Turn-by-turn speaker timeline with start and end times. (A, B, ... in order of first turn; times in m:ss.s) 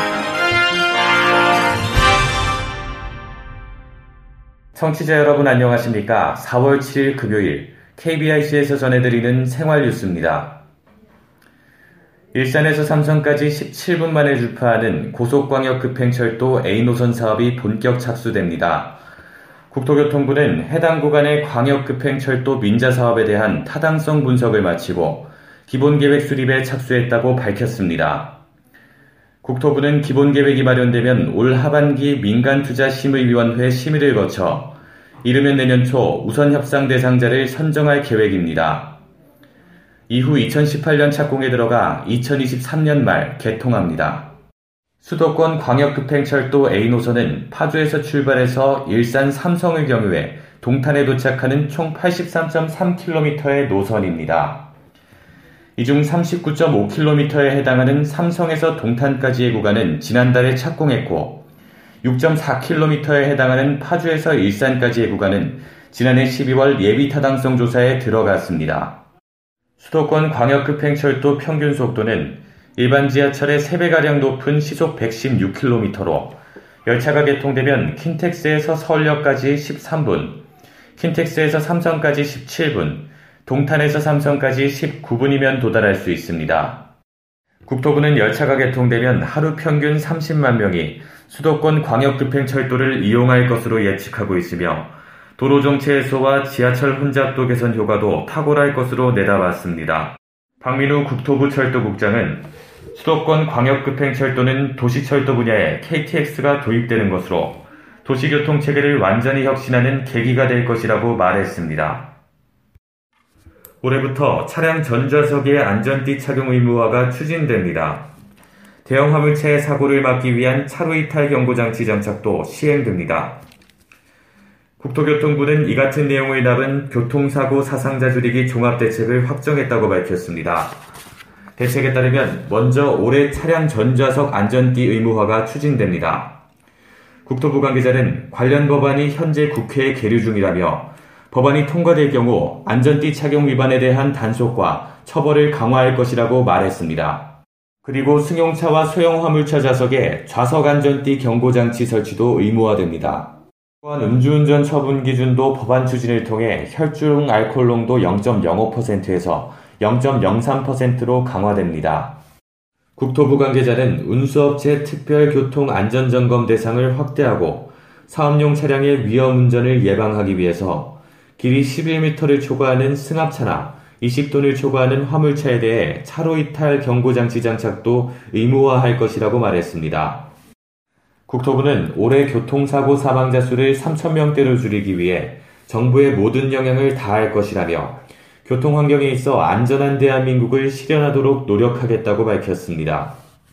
0:04.8-0:10.6 A
0:12.4-0:19.0 A
0:19.7-0:28.4 A
0:29.4-0:39.0 A
0:40.1-0:44.3 A
0:45.0-0:54.7 A
0:55.8-1:01.5 A
1:02.0-1:09.0 A
1:09.8-1:20.4 A
1:21.0-1:26.9 A
1:27.7-1:52.1 A
1:53.8-1:58.1 A
1:58.9-2:03.4 A
2:04.8-2:10.8 A
2:11.6-2:16.4 A
2:17.3-2:27.3 A
2:27.8-2:42.2 A
2:43.0-3:00.3 A
3:01.3-3:13.2 A